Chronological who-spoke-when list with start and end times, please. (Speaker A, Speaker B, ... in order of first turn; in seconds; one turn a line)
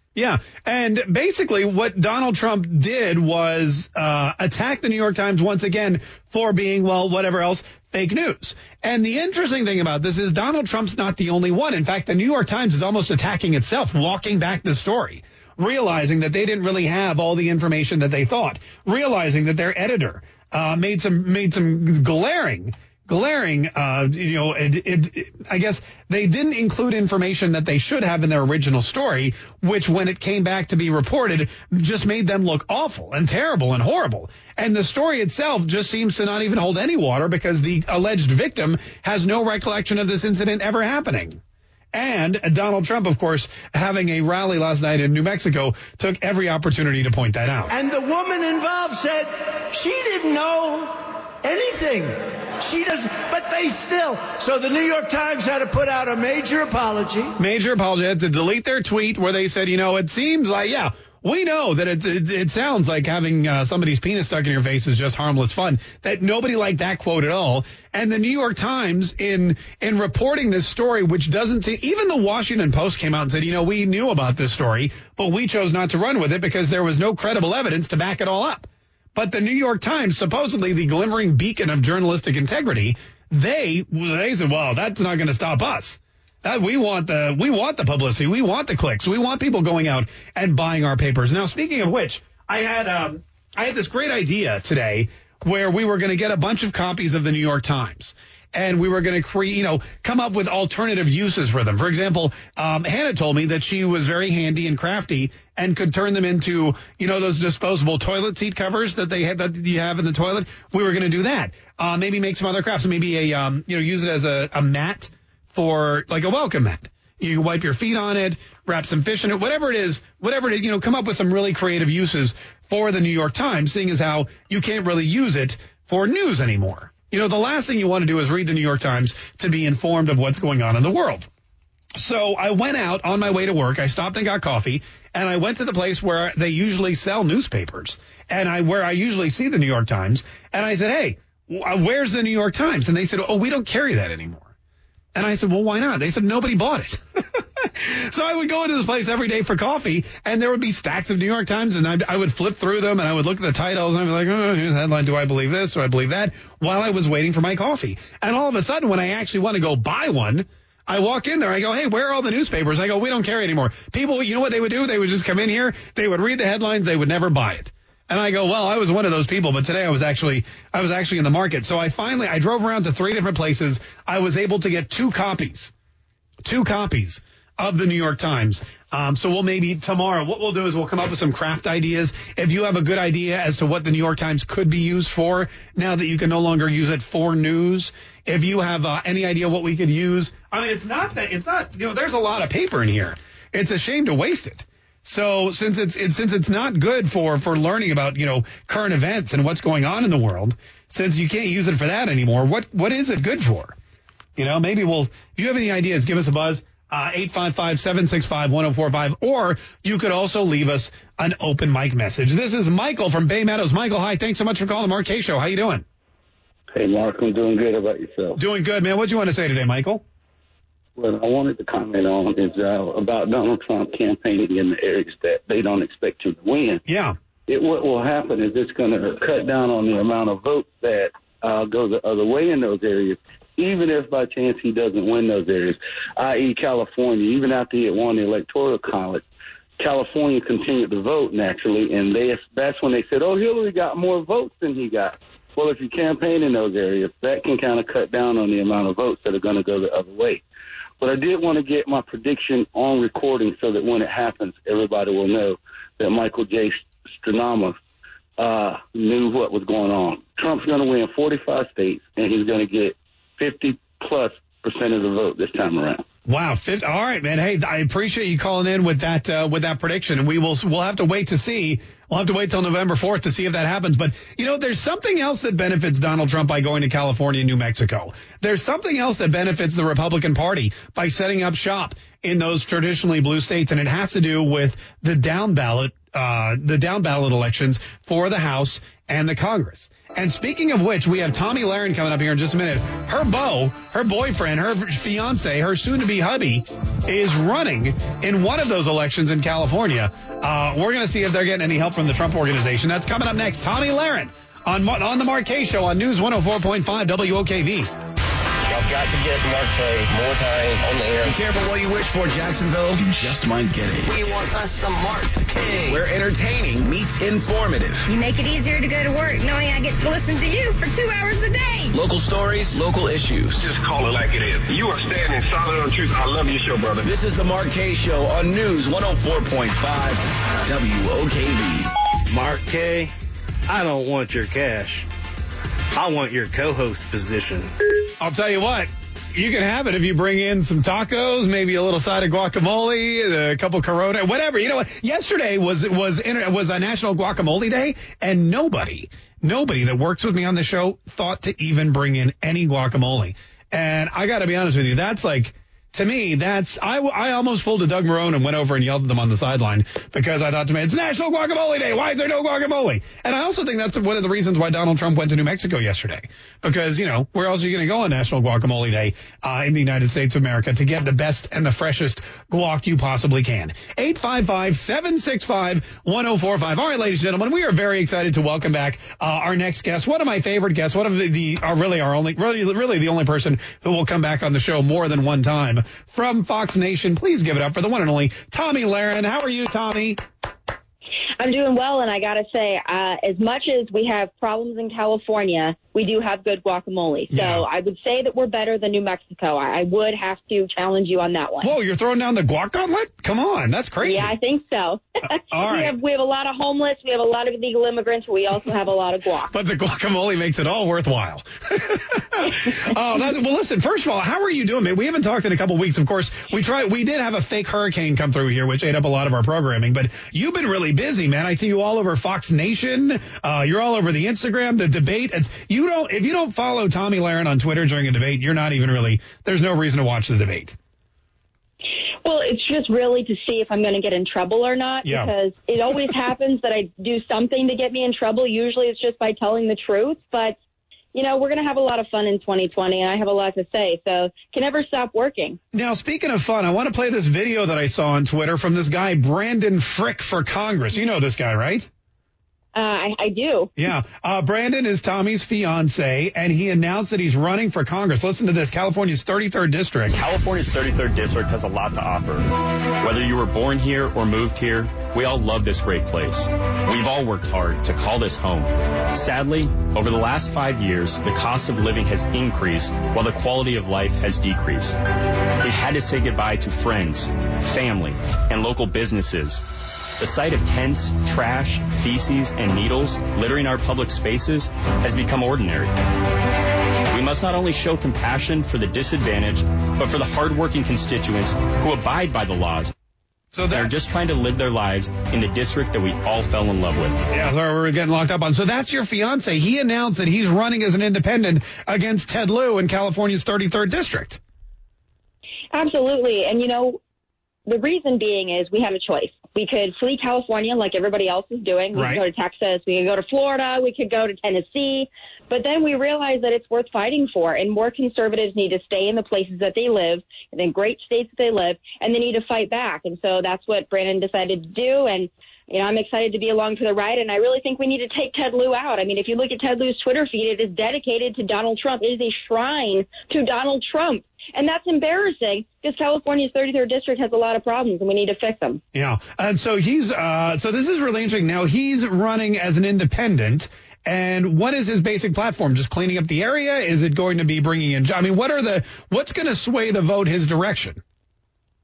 Speaker A: 0.1-41.4
Speaker A: 41.9-47.7
Speaker B: 47.7-57.3
Speaker A: 57.4-131.3
Speaker A: 131.9-144.5
Speaker A: 145.1-147.0
Speaker A: 147.6-175.7
Speaker A: 176.4-203.7
Speaker A: 204.4-215.8
Speaker C: 216.7-218.4
Speaker A: 218.4-220.0
Speaker C: 221.0-226.8
Speaker A: 226.8-227.2
Speaker C: 227.5-239.2
Speaker C: 239.8-250.4
Speaker C: 251.0-257.8
Speaker C: 258.4-266.0
Speaker A: 266.3-307.9
Speaker D: 308.7-311.4
Speaker E: 311.2-314.1
Speaker D: 314.1-316.0
Speaker E: 315.9-318.1
Speaker F: 318.1-321.9
Speaker E: 321.9-323.7
Speaker G: 323.6-327.1
Speaker E: 327.0-331.9
Speaker H: 332.3-333.1
Speaker H: 333.7-335.1
Speaker H: 335.9-337.7
Speaker A: 338.2-390.2
Speaker I: 391.4-401.7
Speaker A: 397.3-397.6
Speaker A: 401.6-404.3
Speaker I: 404.0-405.0
Speaker A: 405.5-405.9
Speaker I: 405.5-409.5
Speaker A: 409.5-430.8
Speaker I: 432.2-440.6
Speaker A: 435.0-435.3
Speaker I: 441.1-445.6
Speaker A: 445.7-451.9
Speaker I: 452.7-453.7
Speaker A: 453.8-460.1
Speaker J: 460.1-462.5
Speaker J: 463.0-475.0
Speaker J: 475.6-479.6
Speaker J: 480.2-485.9
Speaker J: 487.1-492.9
Speaker A: 493.5-493.9
Speaker J: 493.7-497.2
Speaker A: 497.3-504.4
Speaker I: 505.7-507.0
Speaker I: 507.7-538.8
Speaker A: 511.9-512.2
Speaker A: 538.9-551.0